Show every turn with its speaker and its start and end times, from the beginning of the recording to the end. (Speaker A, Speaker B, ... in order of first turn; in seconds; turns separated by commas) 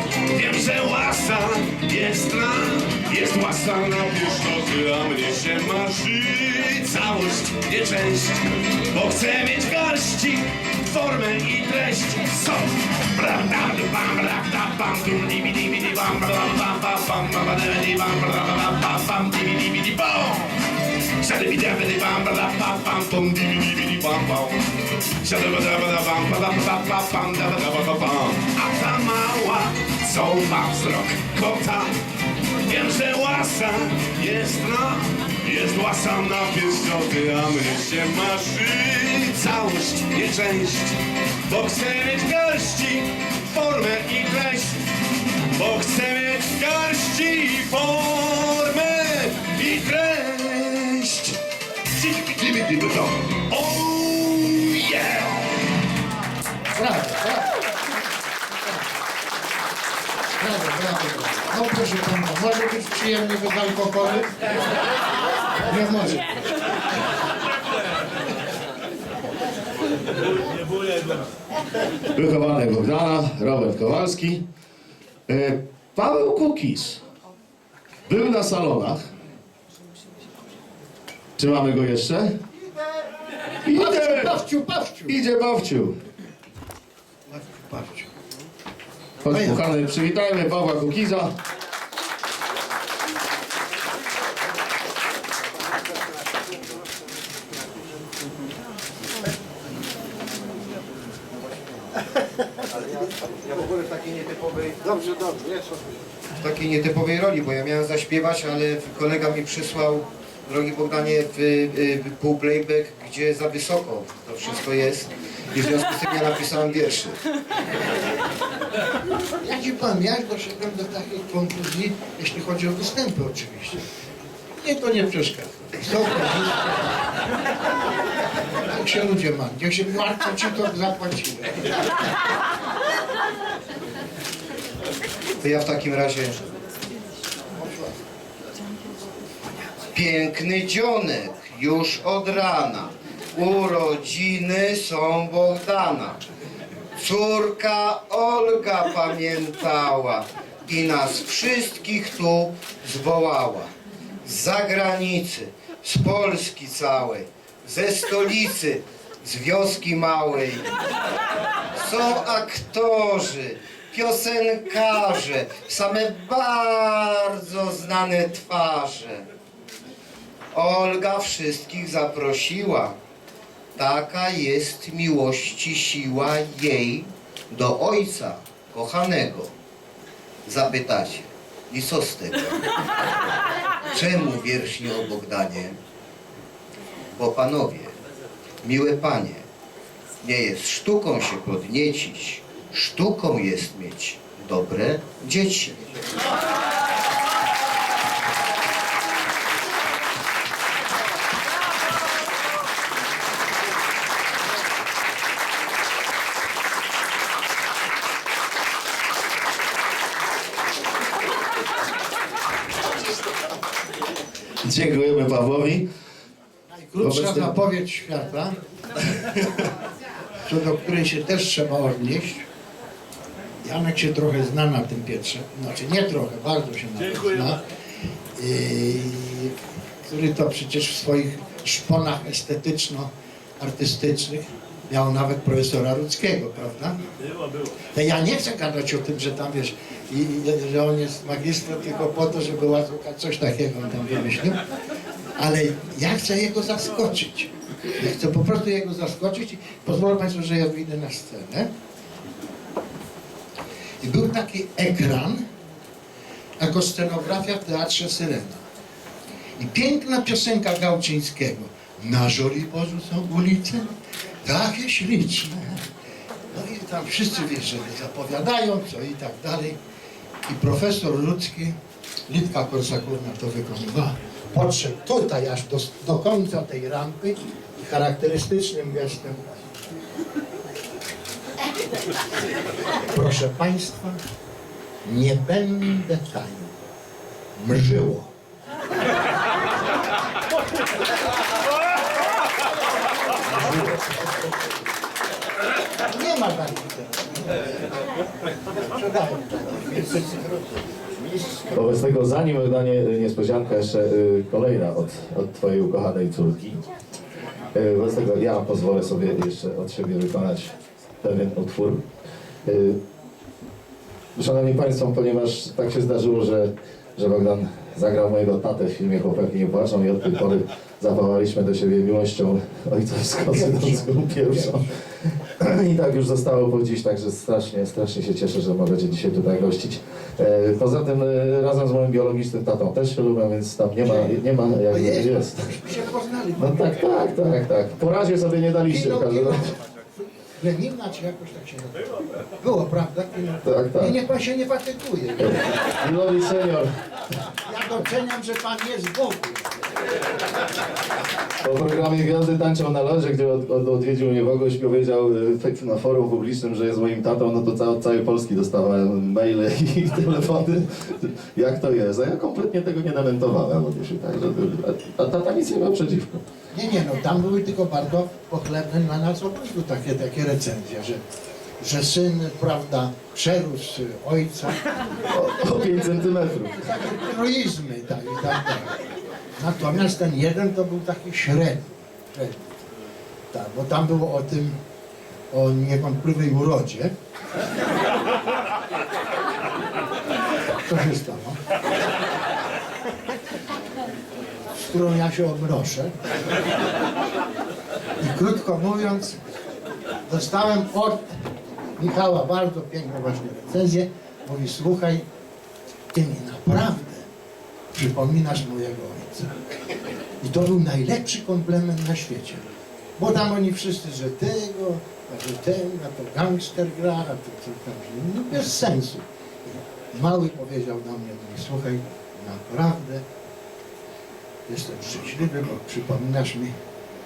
Speaker A: 0.3-20.6, Speaker A: 21.2-24.6, Speaker A: 25.2-31.9, Speaker A: 32.6-44.9, Speaker A: 45.5-51.4, Speaker A: 52.0-55.5, Speaker B: 56.7-57.5, Speaker B: 60.4-64.4, Speaker B: 65.6-66.4, Speaker C: 72.1-74.4, Speaker C: 75.3-77.0, Speaker C: 78.1-79.0, Speaker C: 81.4-82.4, Speaker C: 83.6-84.4, Speaker B: 83.7-85.2, Speaker C: 85.1-86.0, Speaker B: 87.3-88.1, Speaker C: 89.2-91.3, Speaker B: 89.2-89.6, Speaker D: 102.9-104.7, Speaker B: 104.8-106.0, Speaker D: 106.4-117.2, Speaker B: 119.4-123.8, Speaker B: 124.6-127.0, Speaker B: 128.7-131.8, Speaker D: 135.4-136.4, Speaker B: 137.5-137.9, Speaker D: 139.9-146.2, Speaker D: 146.9-153.7, Speaker D: 154.2-160.7, Speaker D: 161.7-169.3, Speaker D: 170.5-172.9, Speaker D: 173.7-179.5, Speaker D: 180.4-182.6, Speaker D: 183.9-185.8, Speaker D: 187.1-188.0, Speaker D: 188.6-189.5, Speaker D: 190.2-195.8, Speaker C: 214.6-215.9, Speaker B: 216.7-218.6, Speaker C: 217.0-217.6, Speaker B: 220.4-222.4, Speaker B: 223.6-227.6, Speaker B: 228.3-229.5, Speaker B: 230.1-237.0, Speaker B: 237.9-244.6, Speaker B: 245.4-251.7, Speaker B: 254.0-255.4, Speaker B: 256.6-258.6, Speaker B: 259.6-263.9, Speaker B: 264.4-265.9, Speaker B: 266.5-269.8, Speaker B: 270.5-271.8, Speaker B: 272.3-279.5, Speaker B: 283.1-284.2, Speaker B: 285.0-286.7, Speaker B: 287.6-288.3, Speaker B: 293.5-294.4, Speaker B: 296.1-297.9, Speaker B: 298.7-301.5, Speaker C: 301.7-306.8, Speaker C: 307.7-312.1, Speaker C: 312.6-313.0, Speaker C: 314.3-335.7, Speaker B: 323.5-324.9, Speaker B: 334.0-337.0, Speaker C: 336.6-339.7, Speaker B: 338.9-339.8, Speaker B: 340.6-345.7, Speaker C: 343.6-344.2, Speaker C: 345.4-346.9, Speaker B: 347.6-349.9, Speaker C: 351.6-366.4, Speaker B: 366.7-371.2, Speaker B: 371.8-375.0, Speaker C: 375.3-376.9, Speaker B: 376.8-379.0, Speaker B: 379.6-382.9, Speaker B: 383.5-384.8, Speaker B: 385.5-387.1, Speaker B: 390.8-391.6, Speaker B: 394.8-396.2, Speaker B: 398.2-399.4, Speaker B: 400.3-401.3, Speaker B: 402.0-405.2, Speaker B: 406.1-407.3, Speaker B: 407.9-409.5, Speaker B: 410.4-412.6, Speaker B: 413.2-423.2, Speaker B: 424.7-426.7